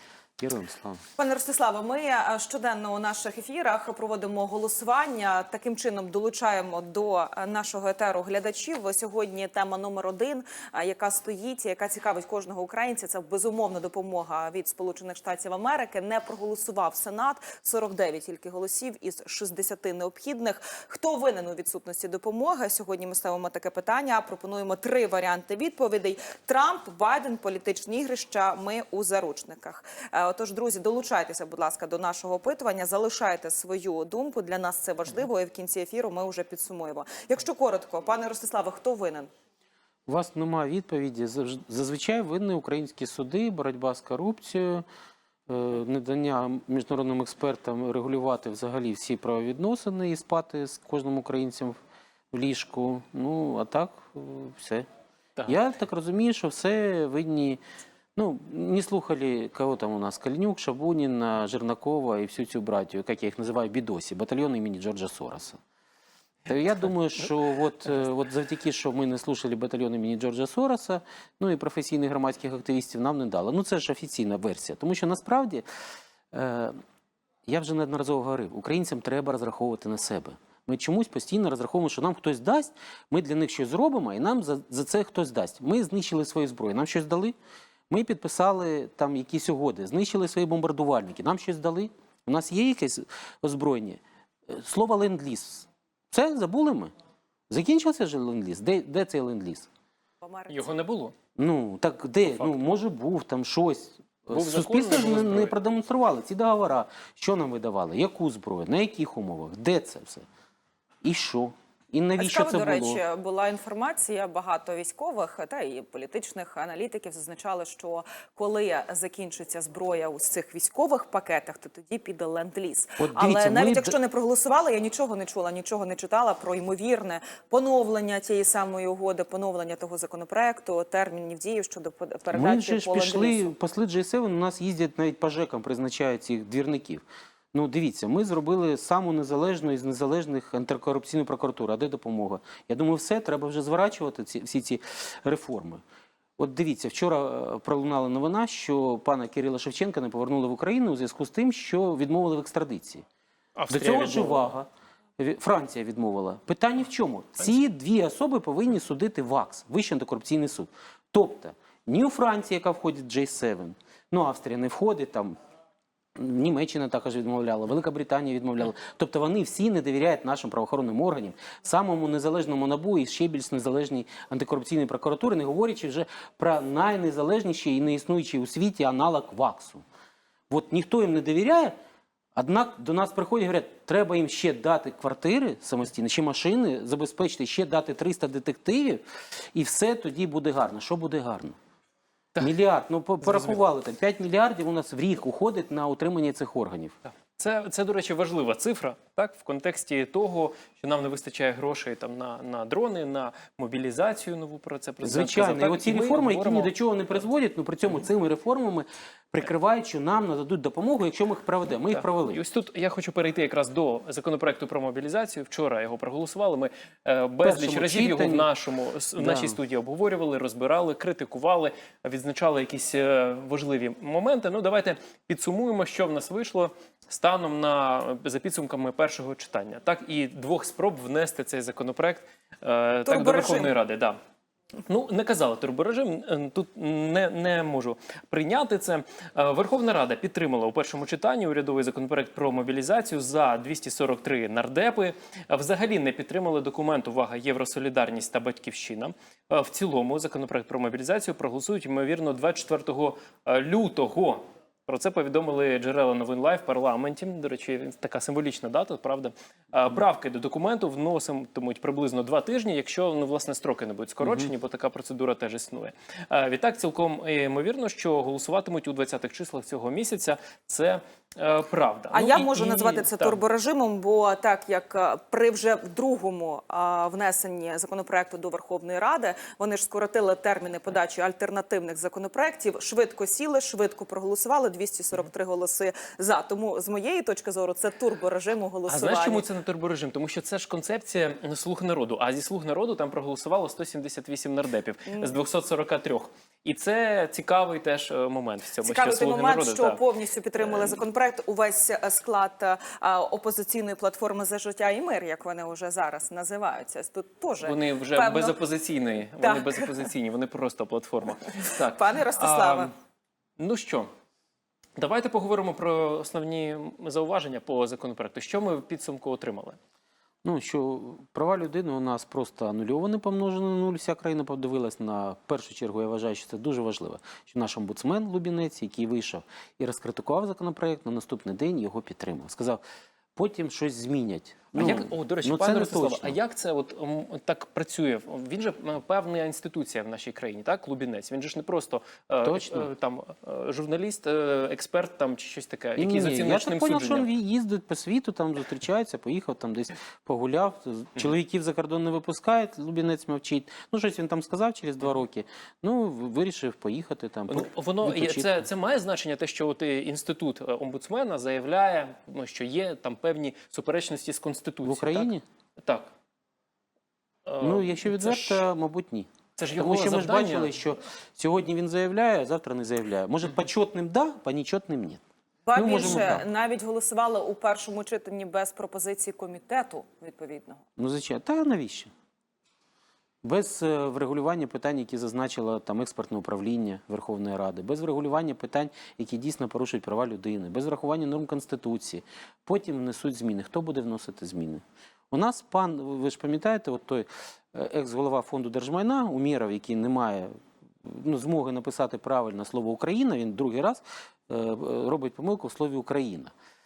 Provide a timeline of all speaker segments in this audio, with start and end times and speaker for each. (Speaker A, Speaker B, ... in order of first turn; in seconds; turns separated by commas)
Speaker A: 0.4-1.0, Speaker B: 1.2-39.3, Speaker A: 40.1-44.8, Speaker A: 45.5-51.8, Speaker A: 52.3-54.9, Speaker A: 55.5-57.6, Speaker A: 58.2-65.6, Speaker A: 66.5-75.6, Speaker A: 76.3-76.8, Speaker A: 77.5-87.3, Speaker A: 87.9-96.9, Speaker A: 97.5-99.7, Speaker B: 100.2-100.7, Speaker C: 100.5-101.1, Speaker A: 101.4-110.2, Speaker C: 102.2-102.7, Speaker C: 104.3-105.5, Speaker A: 111.0-113.0, Speaker B: 112.2-133.5, Speaker A: 123.0-124.0, Speaker A: 132.3-145.8, Speaker A: 146.4-153.0, Speaker C: 153.6-154.5, Speaker A: 153.7-165.4, Speaker A: 166.2-179.8, Speaker A: 180.5-181.8, Speaker A: 182.3-189.0, Speaker A: 189.5-191.6, Speaker A: 192.4-197.0, Speaker C: 193.2-193.6, Speaker C: 197.4-206.7, Speaker A: 205.0-212.4, Speaker C: 211.9-234.2, Speaker A: 217.4-218.5, Speaker A: 219.2-219.6, Speaker B: 233.1-233.7, Speaker C: 234.8-273.4, Speaker A: 264.2-264.5, Speaker B: 272.1-289.4, Speaker C: 288.9-300.0, Speaker B: 295.1-295.3, Speaker B: 298.8-308.6, Speaker C: 300.6-301.0, Speaker C: 307.6-312.9, Speaker B: 309.4-310.1, Speaker B: 311.6-312.9, Speaker C: 313.6-314.1, Speaker C: 315.0-319.8, Speaker A: 320.4-332.8, Speaker A: 333.4-336.4, Speaker C: 334.7-347.3, Speaker A: 342.4-342.9, Speaker A: 346.0-358.7, Speaker C: 357.5-366.1, Speaker A: 364.8-365.4, Speaker C: 367.4-368.6, Speaker A: 367.6-375.2, Speaker C: 369.6-370.8, Speaker B: 375.6-380.8, Speaker A: 375.7-376.4, Speaker A: 381.0-382.1, Speaker A: 383.4-400.5, Speaker A: 401.0-406.5